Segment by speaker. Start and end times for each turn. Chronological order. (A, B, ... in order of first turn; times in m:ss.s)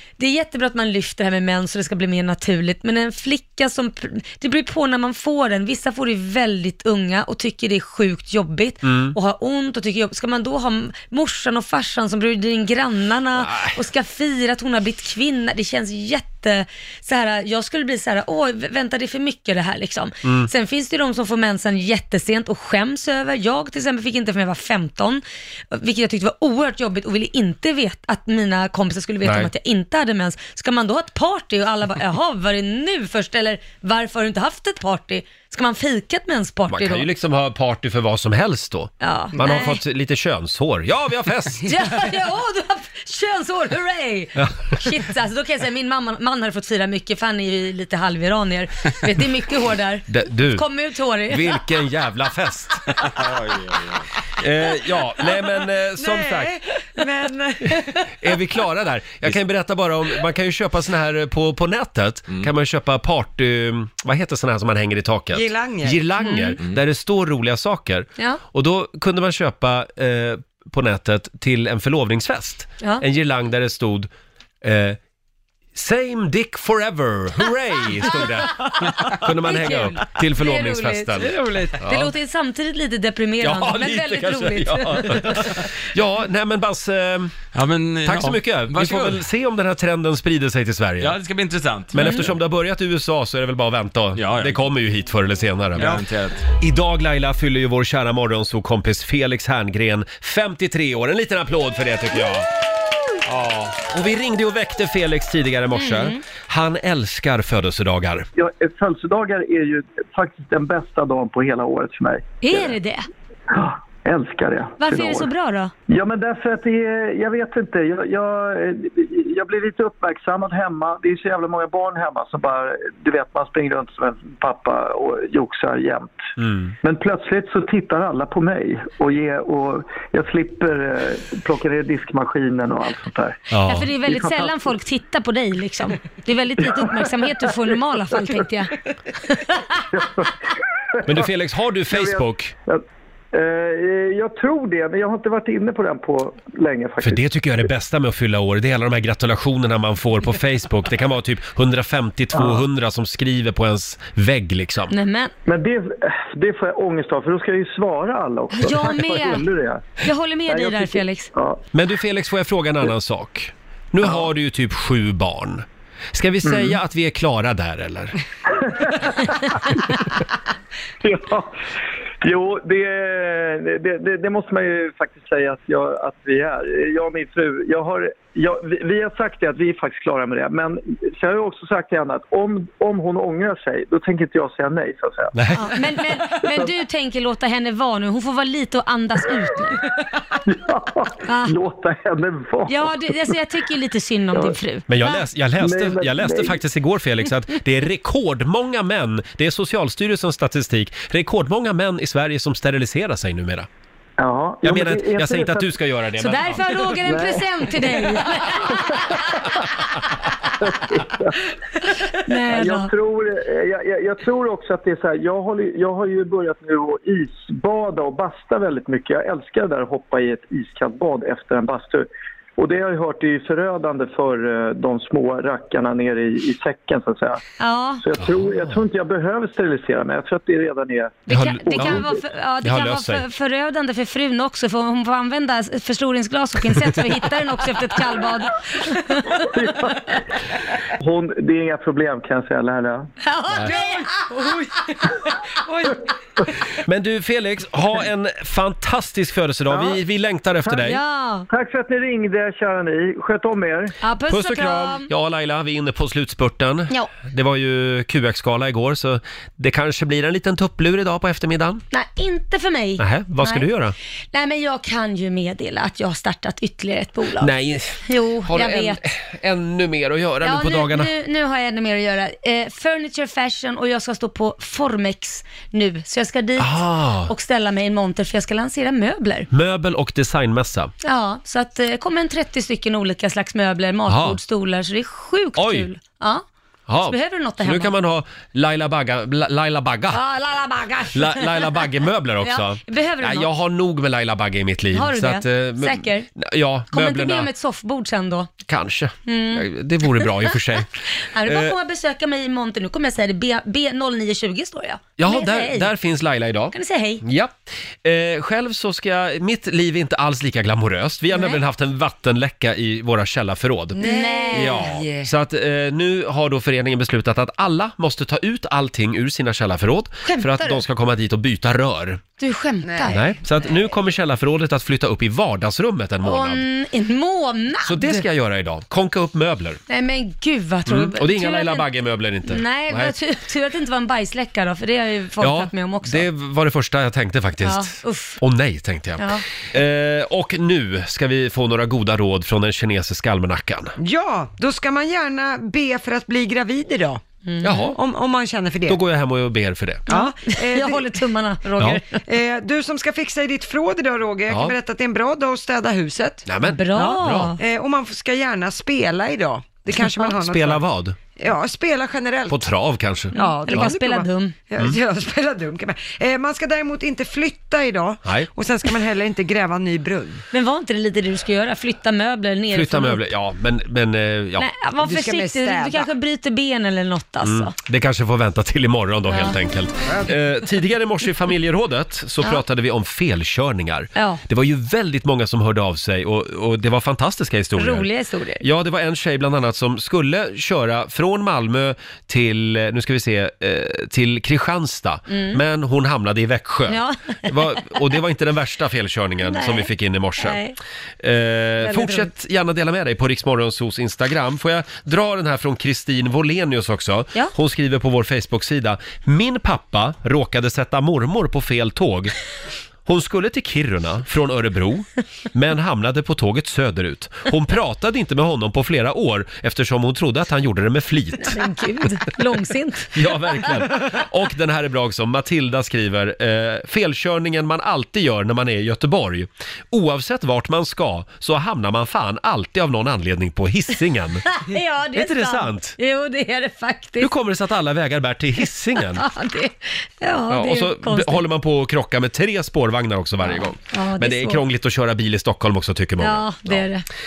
0:00.2-0:37.1 A
0:08.8-0:09.2 B
0:13.4-0:13.8 B
0:20.2-0:20.5 B
0:29.2-0:29.5 B
0:36.7-0:41.7 B
0:39.0-0:39.8 A
0:41.6-0:51.6 A
0:44.4-0:44.8 B
0:50.1-0:50.6 B
0:51.3-0:53.1 B
0:53.0-0:54.1 C
0:54.4-0:56.5 B
0:56.0-0:57.8 D
0:58.2-1:14.1 B
1:05.3-1:06.0 D
1:06.2-1:06.6 A
1:14.6-1:15.0 B
1:15.7-1:22.1 B
1:19.2-1:21.3 A
1:21.4-1:21.7 D
1:21.8-1:25.6 A
1:23.4-1:27.4 B
1:27.5-1:29.2 C
1:28.0-1:31.2 B
1:31.0-1:32.3 C
1:31.9-1:36.0 B
1:34.1-1:34.6 C
1:35.7-1:36.5 C
1:36.6-1:42.5 B
1:43.2-1:48.3 B
1:45.7-1:46.2 A
1:48.4-1:52.7 E
1:52.4-1:53.1 A
1:53.5-1:55.3 E
1:54.8-1:55.7 A
1:55.9-2:06.2 E
2:06.4-2:06.7 B
2:06.8-2:13.5 E
2:13.5-2:13.9 B
2:13.6-2:18.8 A
2:14.0-2:14.7 E
2:16.6-2:18.4 E
2:19.3-2:19.8 A
2:19.9-2:20.3 E
2:21.0-2:21.3 E
2:21.0-2:22.5 B
2:21.9-2:22.8 E
2:23.3-2:27.2 E
2:27.0-2:34.9 B
2:32.3-2:32.6 E
2:34.9-2:35.3 A
2:35.4-2:41.6 E
2:38.5-2:39.5 A
2:40.0-2:41.3 A
2:41.7-2:48.1 B
2:46.4-2:46.8 E
2:48.6-2:49.6 E
2:51.0-2:51.5 E
2:52.2-3:05.3 E
3:05.3-3:05.7 B
3:05.6-3:09.8 A
3:06.4-3:06.7 E
3:10.4-3:13.4 E
3:11.2-3:11.6 A
3:12.7-3:15.2 A
3:14.9-3:23.7 B
3:15.6-3:16.6 E
3:24.2-3:25.7 E
3:24.6-3:26.9 B
3:26.2-3:29.2 A
3:26.9-3:28.1 E
3:28.7-3:29.2 E
3:30.6-3:31.4 E
3:32.2-3:32.9 A
3:32.4-3:42.0 E
3:42.6-3:47.4 E
3:47.6-3:48.0 A
3:48.0-3:52.1 E
3:51.3-3:59.4 A
3:51.3-3:52.1 B
3:52.6-3:53.2 B
3:59.4-4:00.2 E
4:01.0-4:03.1 E
4:03.2-4:04.3 A
4:03.6-4:05.1 D
4:05.6-4:06.0 D
4:06.8-4:11.0 B
4:10.7-4:11.5 A
4:11.5-4:13.9 E
4:14.0-4:15.1 A
4:14.3-4:21.8 B
4:21.9-4:23.7 A
4:23.0-4:23.9 B
4:24.3-4:27.5 A
4:27.4-4:31.1 B
4:28.0-4:29.0 A
4:30.4-4:39.5 A
4:36.6-4:37.3 B
4:39.5-4:40.9 B
4:41.0-4:46.4 A
4:44.1-4:44.4 B
4:45.6-4:45.9 B
4:46.9-4:50.2 B
4:47.0-4:47.9 A
4:50.1-4:51.9 A
4:51.1-4:57.5 B
4:52.4-4:53.5 A
4:54.9-4:56.3 A
4:56.9-4:58.5 A
4:58.7-5:01.7 B
4:59.3-5:00.6 A
5:01.3-5:05.9 A
5:05.2-5:22.2 B
5:06.7-5:07.2 A
5:11.3-5:11.6 A
5:14.0-5:14.9 A
5:14.0-5:15.3 D
5:20.2-5:20.8 A
5:22.4-5:23.3 A
5:22.8-5:23.1 D
5:23.1-5:26.6 B
5:26.2-5:28.2 A
5:27.8-5:29.8 B
5:29.9-5:31.8 A
5:30.8-5:33.1 B
5:32.5-5:36.3 A
5:35.4-5:43.9 B
5:37.6-5:38.4 A
5:44.0-5:47.2 D
5:47.4-5:47.9 A
5:47.6-5:48.0 B
5:47.9-5:49.0 D
5:48.9-5:50.0 B
5:50.1-5:52.2 A
5:50.1-5:51.2 D
5:52.2-6:00.8 D
5:54.5-5:54.7 B
5:56.4-5:57.5 B
5:56.7-5:57.6 A
6:00.2-6:01.2 B
6:01.4-6:02.7 D
6:02.5-6:03.3 B
6:03.3-6:10.4 D
6:03.3-6:04.5 A
6:08.2-6:08.5 B
6:10.5-6:13.2 A
6:12.7-6:14.7 B
6:14.6-6:17.7 A
6:15.0-6:16.1 D
6:17.4-6:28.1 B
6:19.3-6:19.6 A
6:20.1-6:20.3 D
6:24.2-6:24.4 A
6:27.8-6:28.6 A
6:28.6-6:40.6 B
6:35.3-6:35.6 A
6:36.9-6:38.0 A
6:39.4-6:40.8 A
6:41.2-6:52.3 B
6:41.8-6:42.3 A
6:53.0-7:01.6 B
7:01.4-7:03.1 A
7:03.1-7:14.5 B
7:14.5-7:17.3 A
7:15.1-7:16.0 B
7:17.2-7:19.2 B
7:19.0-7:21.4 A
7:20.5-7:26.8 B
7:23.4-7:24.6 A
7:26.2-7:27.0 A